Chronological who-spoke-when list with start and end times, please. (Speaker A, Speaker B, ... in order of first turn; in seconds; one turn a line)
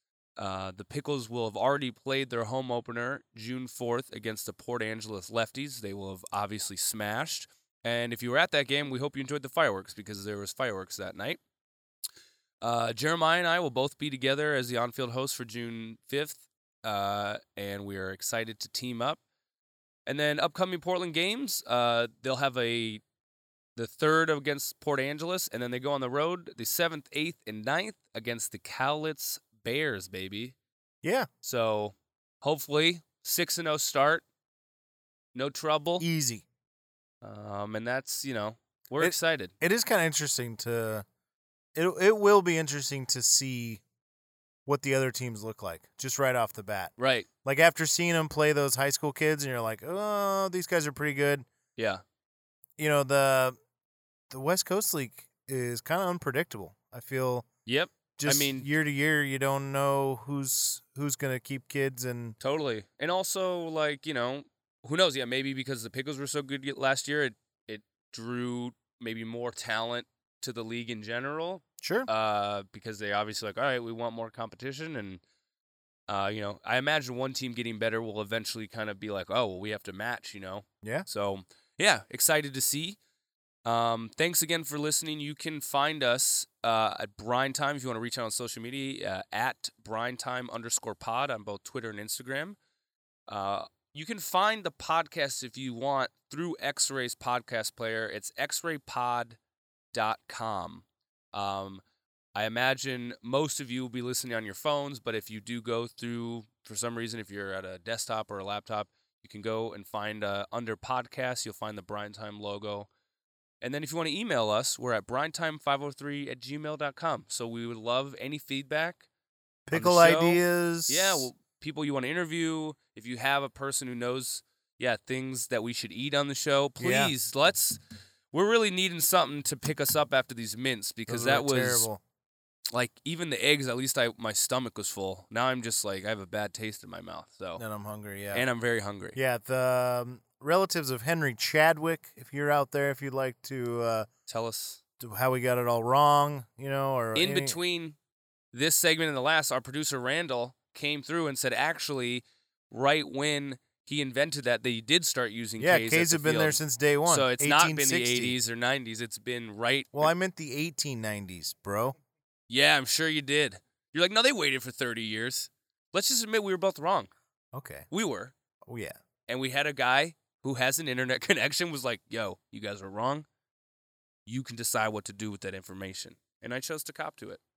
Speaker A: 0.4-11.4
Speaker A: 12.6-19.2
Speaker A: 20.1-23.0
Speaker A: 23.8-30.6
Speaker B: 31.0-31.3
Speaker A: 31.4-34.2
Speaker A: 35.4-36.1
Speaker B: 36.0-36.5
Speaker A: 37.2-39.5
Speaker B: 39.0-41.0
Speaker B: 41.8-43.8
Speaker B: 44.7-46.9
Speaker A: 47.0-47.3
Speaker B: 47.4-51.5
Speaker A: 51.8-52.0
Speaker B: 52.8-53.6
Speaker B: 54.3-57.5
Speaker A: 57.7-58.7
Speaker B: 58.2-62.4
Speaker A: 62.4-75.2
Speaker B: 71.8-72.1
Speaker A: 76.1-83.0
Speaker B: 80.8-81.1
Speaker A: 83.7-92.6
Speaker A: 93.3-99.4
Speaker A: 99.9-101.8
Speaker A: 102.3-112.9
Speaker A: 113.6-119.1
Speaker B: 119.7-121.3
Speaker A: 119.7-127.8
Speaker B: 126.8-127.1
Speaker A: 128.3-131.9
Speaker B: 131.1-132.0
Speaker A: 132.7-137.6
Speaker B: 137.6-138.4
Speaker A: 138.3-139.2
Speaker B: 139.2-144.1
Speaker A: 144.3-144.8
Speaker B: 145.0-147.6
Speaker A: 147.2-148.0
Speaker A: 148.5-160.1
Speaker B: 155.6-158.4
Speaker B: 159.9-162.0
Speaker A: 162.5-167.1
Speaker B: 167.5-167.9
Speaker A: 167.9-168.3
Speaker B: 168.7-169.0
Speaker A: 169.3-173.3
Speaker A: 174.3-177.4